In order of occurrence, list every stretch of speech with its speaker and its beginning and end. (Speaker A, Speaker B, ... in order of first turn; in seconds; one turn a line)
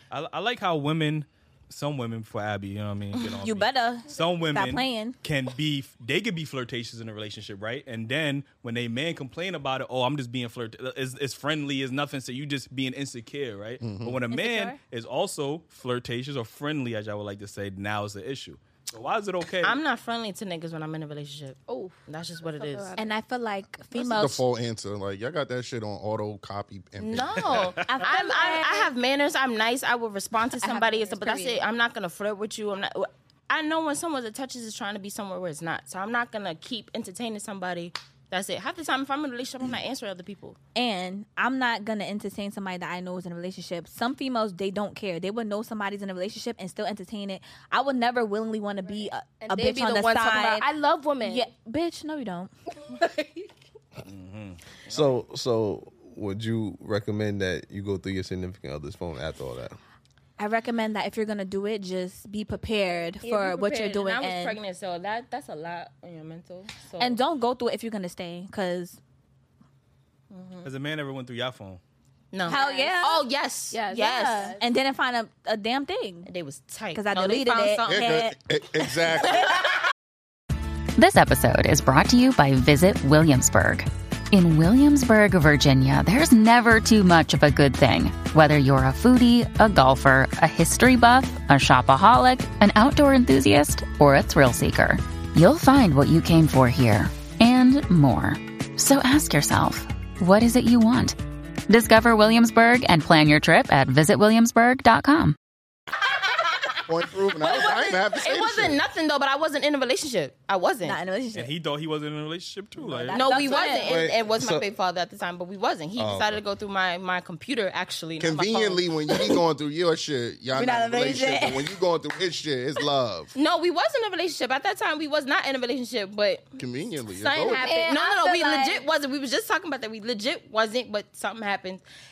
Speaker A: 0.1-19.8
Speaker B: 3.4-5.2
Speaker C: 13.8-14.2
Speaker B: 14.3-14.8
Speaker D: 19.6-22.9
Speaker E: 21.7-23.1
Speaker B: 23.0-24.4
Speaker C: 23.9-27.8
Speaker D: 27.0-40.6
Speaker A: 27.4-28.0
Speaker B: 27.9-28.9
Speaker B: 30.5-31.6
Speaker B: 40.7-50.7
Speaker E: 48.9-51.5
Speaker B: 51.2-52.5
Speaker E: 52.8-53.5
Speaker A: 54.0-55.2
Speaker F: 54.9-59.8
Speaker B: 60.4-64.6
Speaker D: 63.2-67.2
Speaker B: 67.0-69.0
Speaker D: 70.3-70.7
Speaker A: 70.6-71.8
Speaker D: 72.3-74.4
Speaker E: 72.5-72.9
Speaker B: 72.5-73.2
Speaker E: 73.7-74.6
Speaker B: 73.9-76.3
Speaker D: 76.2-78.3
Speaker B: 76.9-78.4
Speaker C: 77.9-79.5
Speaker G: 81.0-101.2
Speaker G: 101.7-105.3
Speaker D: 106.1-106.8
Speaker C: 106.9-108.8
Speaker D: 107.3-111.0
Speaker B: 110.8-111.5
Speaker A: 111.3-113.6
Speaker B: 112.8-113.9
Speaker D: 113.1-118.8
Speaker F: 113.8-114.7
Speaker F: 116.0-116.4
Speaker C: 118.2-123.3
Speaker B: 120.5-121.7
Speaker D: 123.3-126.5
Speaker C: 126.6-127.6
Speaker E: 127.2-128.0
Speaker D: 127.2-131.8
Speaker B: 127.5-128.8